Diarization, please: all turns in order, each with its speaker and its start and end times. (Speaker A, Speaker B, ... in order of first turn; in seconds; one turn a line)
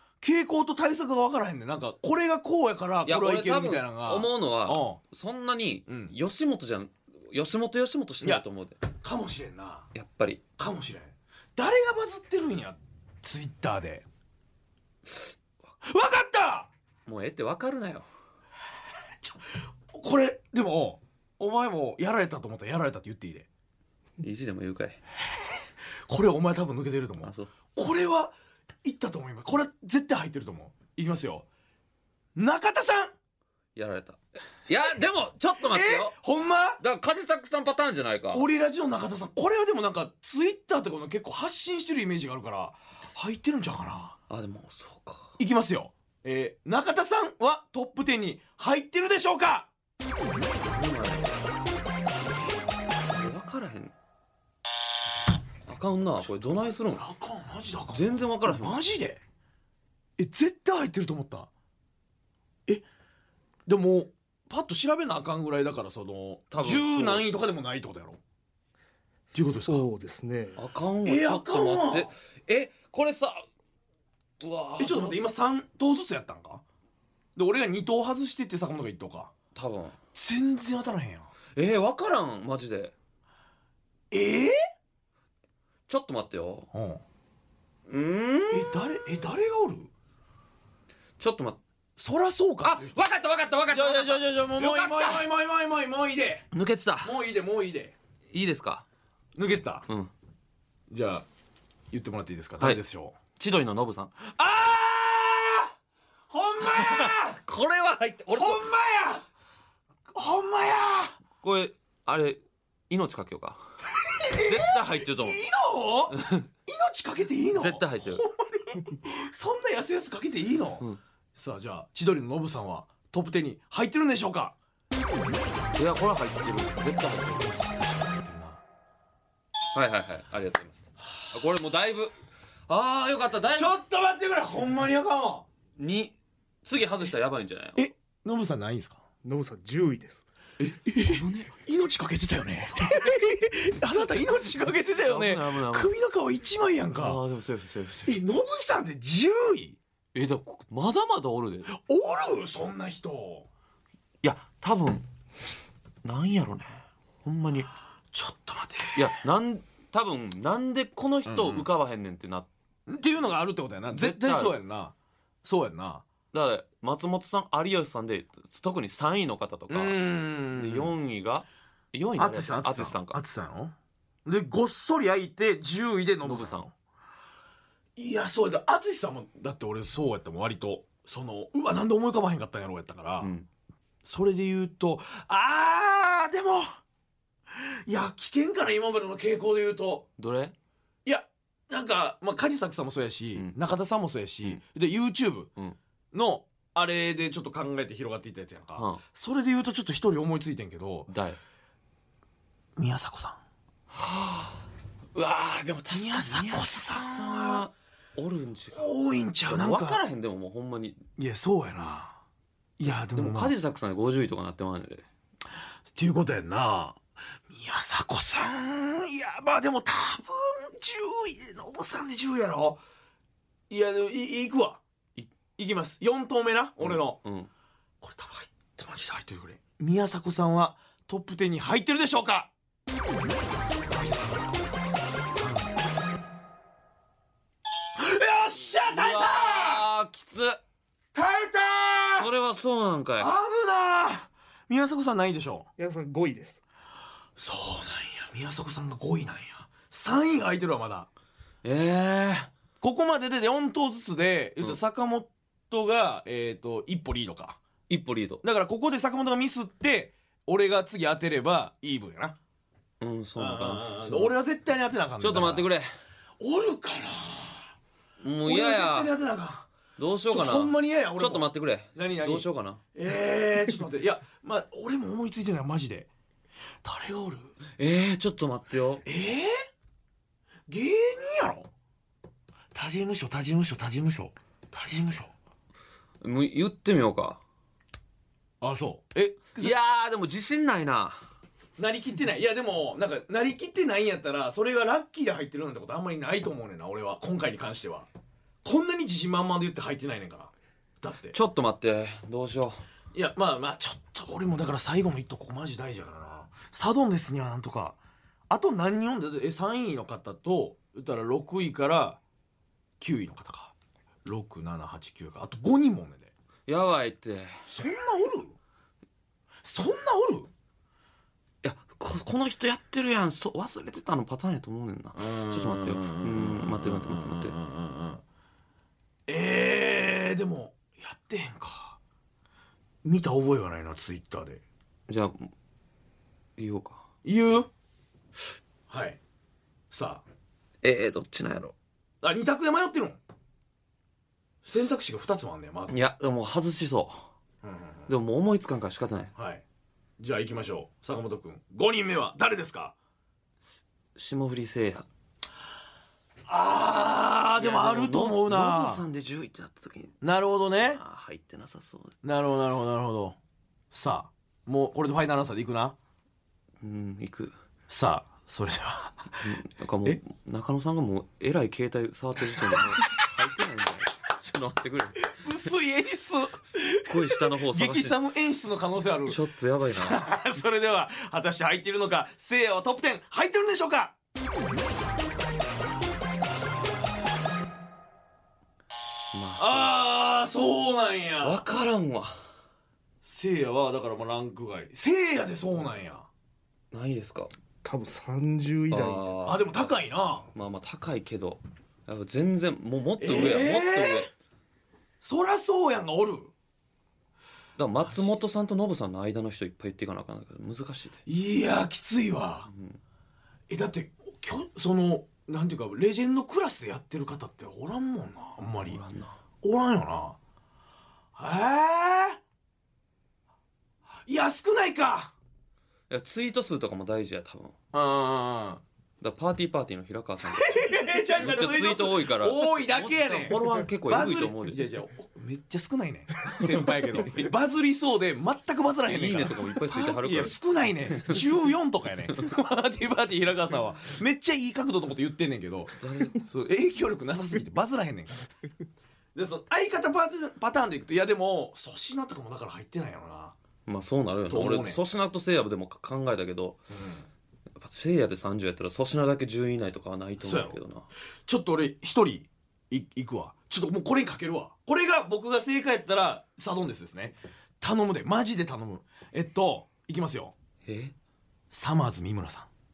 Speaker A: 0.2-5.0
Speaker B: 3.0-8.8
Speaker A: 5.9-6.1
Speaker A: 9.0-9.9
Speaker B: 9.9-10.4
Speaker A: 10.6-14.1
Speaker A: 15.8-16.7
Speaker B: 17.1-18.1
Speaker A: 19.2-23.5
Speaker B: 24.2-25.0
Speaker A: 26.1-31.4
Speaker B: 27.2-27.5
Speaker A: 32.4-33.1
Speaker B: 33.8-36.1
Speaker A: 35.6-36.8
Speaker B: 36.8-38.5
Speaker A: 38.3-44.1
Speaker B: 44.3-45.3
Speaker A: 45.4-49.7
Speaker B: 50.6-51.4
Speaker B: 53.1-53.9
Speaker B: 55.7-57.0
Speaker A: 56.5-59.2
Speaker B: 57.9-58.8
Speaker A: 60.2-61.5
Speaker A: 63.6-68.2
Speaker B: 66.5-67.2
Speaker A: 69.3-69.8
Speaker C: 69.4-70.6
Speaker B: 70.5-73.4
Speaker A: 71.0-72.1
Speaker B: 74.4-75.2
Speaker A: 74.8-76.6
Speaker A: 77.3-79.3
Speaker B: 79.5-80.0
Speaker A: 80.1-81.3
Speaker B: 81.5-82.9
Speaker A: 84.1-84.5
Speaker B: 85.9-86.7
Speaker A: 86.7-87.0
Speaker B: 87.9-88.8
Speaker A: 88.5-89.9
Speaker B: 91.2-91.6
Speaker A: 92.0-92.9
Speaker B: 92.6-95.3
Speaker A: 93.7-96.5
Speaker B: 96.5-97.1
Speaker A: 97.0-98.0
Speaker B: 98.3-98.8
Speaker A: 99.3-99.9
Speaker A: 100.9-101.2
Speaker A: 101.9-103.2
Speaker B: 103.3-104.1
Speaker A: 104.2-105.7
Speaker A: 106.3-107.4
Speaker B: 106.7-108.7
Speaker A: 108.3-109.2
Speaker A: 110.1-111.2
Speaker B: 111.4-113.6
Speaker A: 114.1-120.8
Speaker B: 114.3-115.4
Speaker B: 116.1-116.5
Speaker B: 117.5-118.2
Speaker A: 121.3-124.5
Speaker B: 125.8-127.4
Speaker A: 127.3-128.6
Speaker B: 129.7-132.1
Speaker B: 132.7-133.7
Speaker A: 133.5-135.4
Speaker B: 135.8-136.1
Speaker B: 136.6-137.9
Speaker A: 137.8-139.0
Speaker C: 139.2-140.2
Speaker B: 140.6-141.5
Speaker A: 140.8-147.2
Speaker B: 144.9-145.9
Speaker B: 146.9-148.2
Speaker A: 148.1-149.8
Speaker B: 150.1-151.8
Speaker A: 151.7-153.5
Speaker B: 154.2-155.0
Speaker B: 156.0-157.7
Speaker A: 158.1-159.1
Speaker B: 158.9-162.5
Speaker A: 161.2-161.7
Speaker A: 162.9-166.0
Speaker B: 163.9-164.6
Speaker B: 166.3-170.0
Speaker A: 169.7-170.9
Speaker B: 170.5-173.2
Speaker A: 172.2-176.7
Speaker B: 176.2-176.7
Speaker A: 177.9-183.3
Speaker B: 183.2-183.5
Speaker A: 184.0-186.8
Speaker A: 187.5-190.0
Speaker B: 190.2-190.5
Speaker A: 191.0-195.5
Speaker A: 196.1-201.1
Speaker B: 198.8-199.0
Speaker B: 201.1-201.4
Speaker A: 202.8-203.4
Speaker B: 203.9-208.9
Speaker A: 205.9-207.7
Speaker A: 208.7-210.0
Speaker B: 209.4-211.0
Speaker A: 211.2-212.2
Speaker A: 212.8-213.5
Speaker B: 212.8-215.0
Speaker A: 215.9-217.0
Speaker A: 217.5-222.8
Speaker A: 223.7-224.8
Speaker A: 225.6-227.2
Speaker B: 226.8-227.5
Speaker A: 228.0-232.5
Speaker A: 233.9-234.7
Speaker A: 235.4-235.7
Speaker A: 237.9-239.8
Speaker B: 238.9-240.6
Speaker A: 241.1-242.3
Speaker B: 242.2-243.3
Speaker A: 243.2-245.7
Speaker C: 245.8-246.6
Speaker A: 247.4-251.1
Speaker B: 251.6-252.5
Speaker A: 252.8-257.6
Speaker B: 257.9-258.4
Speaker A: 258.4-262.4
Speaker B: 263.0-264.3
Speaker A: 263.4-265.7
Speaker B: 265.2-265.9
Speaker A: 266.4-267.7
Speaker B: 268.2-269.1
Speaker A: 268.4-269.7
Speaker B: 270.0-272.8
Speaker A: 270.3-276.1
Speaker A: 276.8-277.5
Speaker B: 277.7-279.0
Speaker A: 279.0-279.6
Speaker A: 280.7-281.7
Speaker A: 282.7-285.3
Speaker B: 286.2-287.4
Speaker A: 288.6-289.7
Speaker B: 289.6-291.3
Speaker A: 291.8-298.1
Speaker A: 298.6-301.4
Speaker B: 301.3-302.8
Speaker A: 303.1-308.0
Speaker A: 308.5-312.2
Speaker A: 313.0-313.7
Speaker A: 314.2-316.3
Speaker B: 316.7-317.5
Speaker A: 317.7-318.6
Speaker A: 319.6-320.5
Speaker B: 321.6-327.6
Speaker A: 325.1-328.2
Speaker A: 329.3-332.0
Speaker A: 333.0-334.6
Speaker B: 335.1-335.5
Speaker B: 336.6-337.0
Speaker A: 337.2-337.7
Speaker A: 338.9-339.2
Speaker A: 339.9-340.2
Speaker B: 340.8-341.7
Speaker A: 342.2-343.2
Speaker A: 344.6-345.9
Speaker B: 345.9-347.3
Speaker A: 347.6-348.1
Speaker B: 348.1-349.3
Speaker A: 349.4-349.6
Speaker A: 350.2-352.9
Speaker B: 354.1-355.1
Speaker A: 356.5-359.0
Speaker B: 357.6-360.1
Speaker A: 360.2-361.0
Speaker B: 360.8-362.1
Speaker A: 362.2-363.4
Speaker A: 363.9-365.9
Speaker B: 366.8-367.5
Speaker A: 367.9-369.4
Speaker B: 369.4-375.4
Speaker A: 372.6-373.1
Speaker A: 375.3-384.1
Speaker B: 376.9-378.2
Speaker B: 379.3-380.2
Speaker B: 389.3-390.0
Speaker A: 389.6-391.6
Speaker B: 391.4-392.4
Speaker A: 393.2-396.3
Speaker B: 396.9-397.5
Speaker C: 397.8-399.4
Speaker B: 398.9-399.9
Speaker A: 399.4-400.5
Speaker B: 400.5-404.3
Speaker A: 403.2-404.3
Speaker A: 405.2-406.5
Speaker B: 407.8-411.2
Speaker A: 411.2-412.7
Speaker B: 412.7-413.0
Speaker A: 413.7-419.0
Speaker B: 418.8-419.4
Speaker A: 419.6-420.4
Speaker A: 421.4-422.4
Speaker A: 424.2-425.3
Speaker B: 426.1-427.7
Speaker A: 427.9-428.8
Speaker B: 429.2-434.9
Speaker A: 430.5-448.5
Speaker B: 436.7-437.4
Speaker B: 439.1-440.6
Speaker B: 441.1-441.4
Speaker B: 446.0-446.4
Speaker A: 449.3-453.6
Speaker B: 453.9-456.8
Speaker A: 454.5-455.0
Speaker A: 456.9-457.2
Speaker B: 457.8-461.1
Speaker A: 460.4-460.8
Speaker A: 461.4-470.5
Speaker B: 470.9-471.1
Speaker A: 471.7-472.7